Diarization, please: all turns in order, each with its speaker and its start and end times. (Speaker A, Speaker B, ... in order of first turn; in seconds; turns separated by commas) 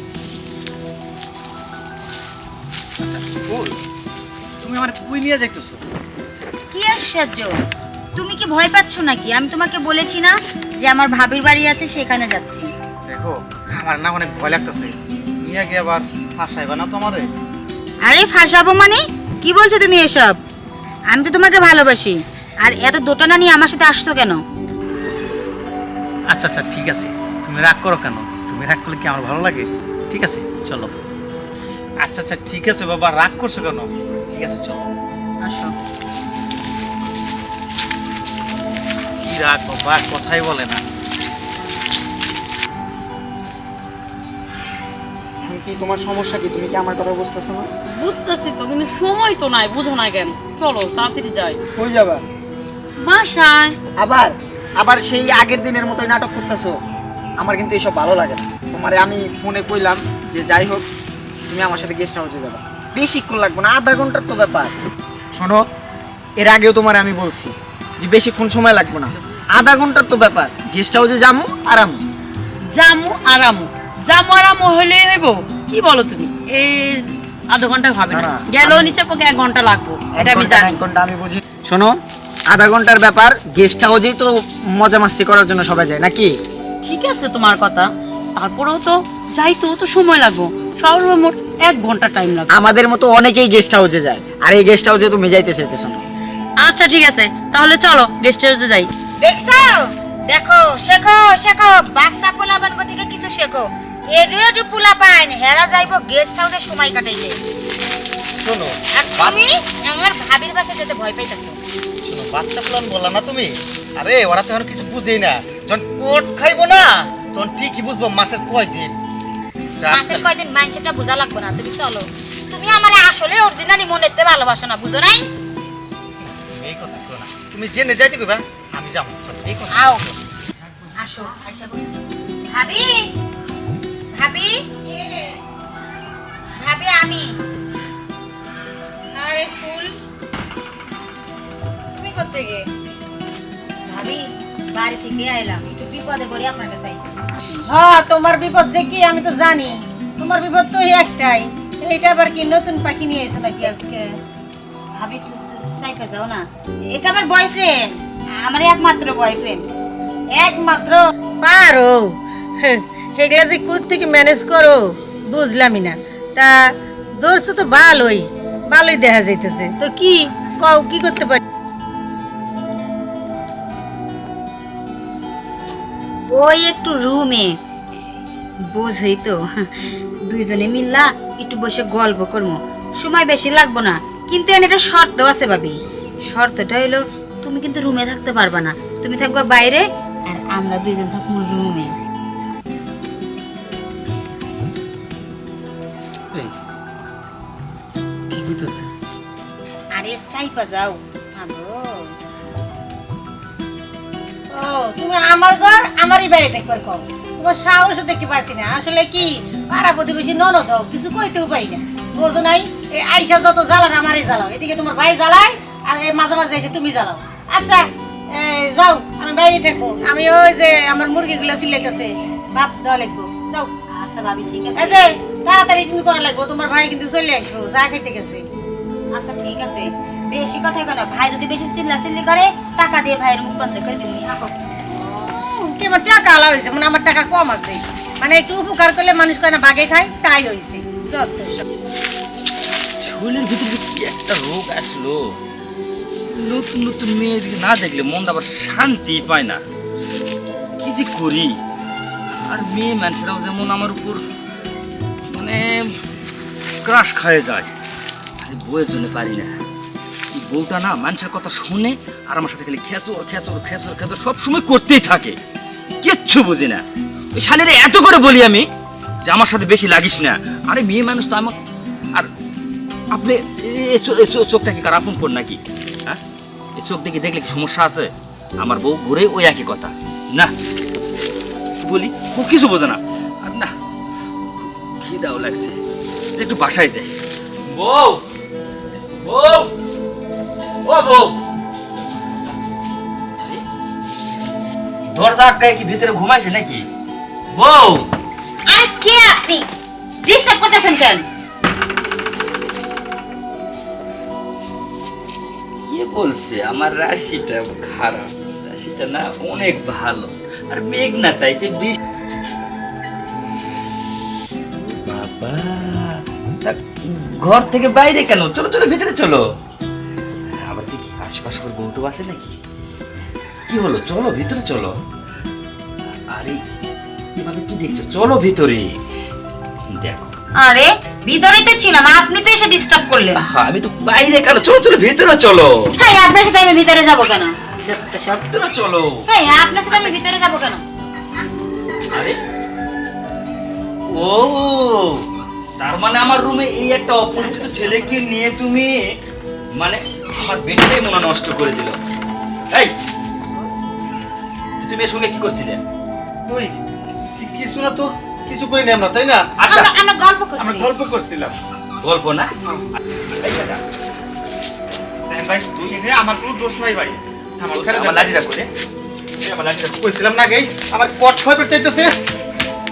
Speaker A: 3.0-3.8, Speaker A: 4.6-5.8, Speaker B: 6.7-7.6, Speaker B: 8.2-12.7, Speaker A: 13.1-17.3, Speaker B: 18.0-20.4, Speaker B: 21.1-24.4, Speaker A: 26.3-30.9, Speaker A: 32.0-34.9, Speaker C: 35.4-35.7, Speaker A: 39.2-40.8, Speaker D: 45.4-47.7, Speaker C: 47.9-51.6, Speaker D: 51.8-52.2, Speaker C: 53.0-53.8, Speaker D: 54.0-56.8, Speaker D: 57.4-60.9, Speaker D: 61.5-64.8, Speaker D: 65.3-65.7, Speaker D: 66.4-72.0, Speaker C: 72.7-80.8, Speaker D: 78.1-79.0, Speaker D: 80.1-82.0, Speaker D: 82.5-86.3, Speaker C: 86.8-92.5, Speaker D: 92.5-96.0, Speaker C: 96.6-98.9, Speaker B: 99.2-107.4, Speaker A: 108.4-109.4, Speaker B: 108.9-111.6, Speaker A: 112.0-118.9, Speaker A: 119.8-120.3, Speaker B: 119.9-125.2, Speaker A: 126.2-130.2, Speaker B: 129.7-130.0, Speaker B: 131.0-131.8, Speaker B: 132.5-133.0, Speaker B: 134.1-134.6, Speaker B: 136.6-137.3, Speaker E: 139.1-139.9, Speaker E: 141.9-142.7, Speaker B: 143.9-147.3, Speaker E: 147.5-154.0, Speaker B: 155.0-159.7, Speaker E: 160.3-166.6, Speaker E: 167.2-171.4, Speaker B: 176.3-177.5, Speaker B: 178.7-179.7, Speaker B: 180.3-185.7, Speaker B: 186.3-191.9, Speaker A: 198.3-198.9, Speaker B: 199.9-202.0, Speaker E: 204.5-223.7, Speaker B: 223.9-225.0, Speaker E: 224.8-228.4, Speaker B: 229.1-234.5, Speaker E: 234.9-241.6, Speaker F: 243.0-245.2, Speaker F: 246.3-249.6, Speaker F: 250.8-251.5, Speaker F: 252.5-254.2, Speaker F: 255.3-255.6, Speaker F: 256.8-257.7, Speaker F: 258.4-259.5, Speaker F: 260.3-265.4, Speaker F: 266.0-266.8, Speaker F: 267.3-268.6, Speaker F: 269.2-271.6, Speaker F: 273.1-276.2, Speaker F: 276.8-280.5, Speaker F: 281.8-283.7, Speaker F: 285.0-285.8, Speaker F: 286.4-287.1, Speaker F: 287.7-288.2, Speaker F: 289.2-289.7, Speaker F: 290.8-291.4, Speaker F: 293.4-293.6, Speaker F: 295.1-296.8, Speaker F: 297.5-298.1, Speaker B: 298.6-299.6, Speaker B: 300.2-301.2, Speaker F: 305.9-312.0, Speaker F: 314.9-319.4, Speaker F: 320.6-322.6, Speaker F: 323.2-324.9, Speaker F: 326.3-326.6, Speaker F: 327.4-328.9, Speaker F: 329.9-330.3, Speaker B: 330.6-333.4, Speaker F: 333.3-335.7, Speaker B: 336.0-338.4, Speaker F: 338.5-339.1, Speaker B: 339.3-340.8, Speaker F: 339.9-340.2, Speaker F: 344.2-345.1, Speaker F: 345.8-349.0, Speaker B: 347.3-348.2, Speaker F: 349.8-351.9, Speaker F: 354.8-355.8, Speaker A: 356.5-356.8, Speaker A: 357.4-359.5, Speaker F: 359.6-359.9, Speaker B: 359.7-360.9, Speaker A: 360.6-361.5, Speaker F: 362.0-362.5, Speaker F: 363.3-363.8, Speaker A: 365.3-368.3, Speaker F: 365.7-366.0, Speaker F: 367.7-368.7, Speaker F: 369.4-370.1, Speaker A: 370.0-372.1